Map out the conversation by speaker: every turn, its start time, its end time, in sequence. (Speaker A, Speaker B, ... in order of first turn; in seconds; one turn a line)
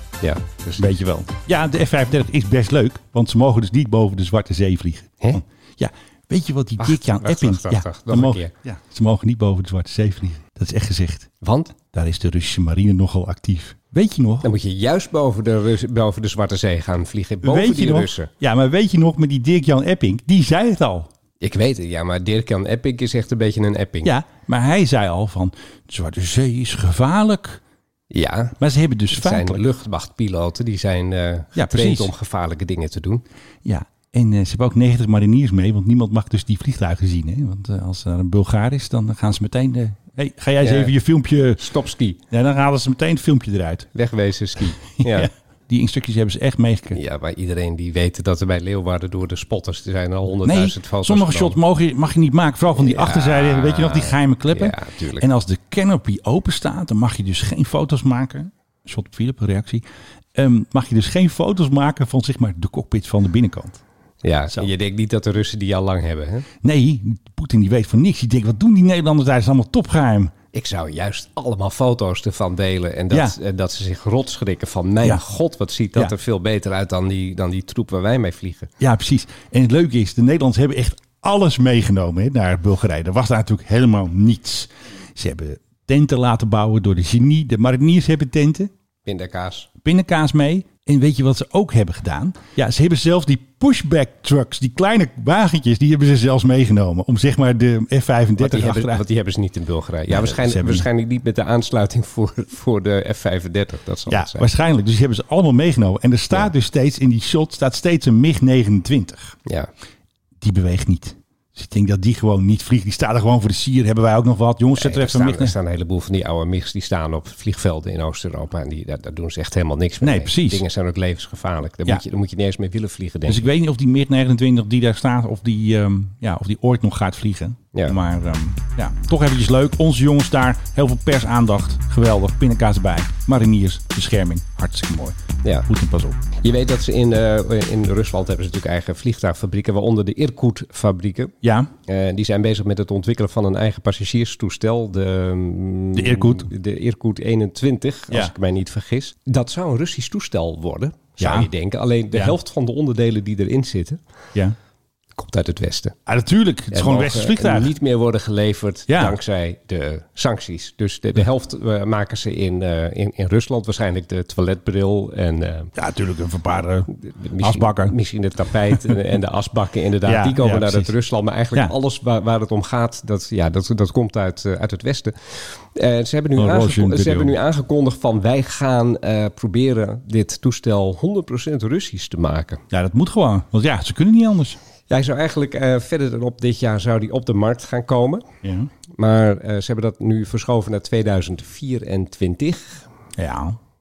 Speaker A: 0.2-1.0
Speaker B: 0.8-11.3
Speaker A: 6.8-8.5
Speaker A: 11.4-11.7
Speaker B: 11.9-14.5
Speaker A: 14.4-18.3
Speaker B: 17.4-21.1
Speaker A: 21.4-24.1
Speaker B: 24.0-27.6
Speaker A: 28.1-28.6
Speaker B: 28.6-29.6
Speaker A: 29.1-33.2
Speaker B: 31.5-32.1
Speaker B: 33.6-41.6
Speaker A: 40.6-40.9
Speaker A: 41.6-42.2
Speaker B: 42.3-43.9
Speaker A: 43.9-45.3
Speaker B: 45.0-47.0
Speaker A: 46.9-51.6
Speaker B: 50.4-59.8
Speaker A: 52.8-55.3
Speaker B: 60.4-63.8
Speaker A: 64.2-66.5
Speaker B: 66.6-70.3
Speaker A: 70.5-78.7
Speaker B: 73.1-73.4
Speaker B: 78.8-88.7
Speaker A: 89.0-89.7
Speaker B: 89.8-99.0
Speaker A: 98.4-104.5
Speaker B: 100.1-100.9
Speaker B: 104.1-109.4
Speaker B: 110.4-115.5
Speaker A: 114.8-123.5
Speaker B: 120.0-120.6
Speaker B: 123.3-136.2
Speaker A: 136.4-141.3
Speaker B: 141.4-141.7
Speaker A: 141.9-154.0
Speaker B: 145.9-146.5
Speaker B: 151.2-151.5
Speaker A: 155.2-155.9
Speaker B: 156.1-157.7
Speaker A: 156.7-165.7
Speaker B: 158.9-159.2
Speaker B: 165.8-167.9
Speaker A: 167.0-182.6
Speaker B: 170.0-170.9
Speaker B: 176.4-177.4
Speaker B: 182.7-184.6
Speaker A: 184.9-188.2
Speaker B: 188.4-188.7
Speaker A: 189.0-192.8
Speaker B: 193.2-193.6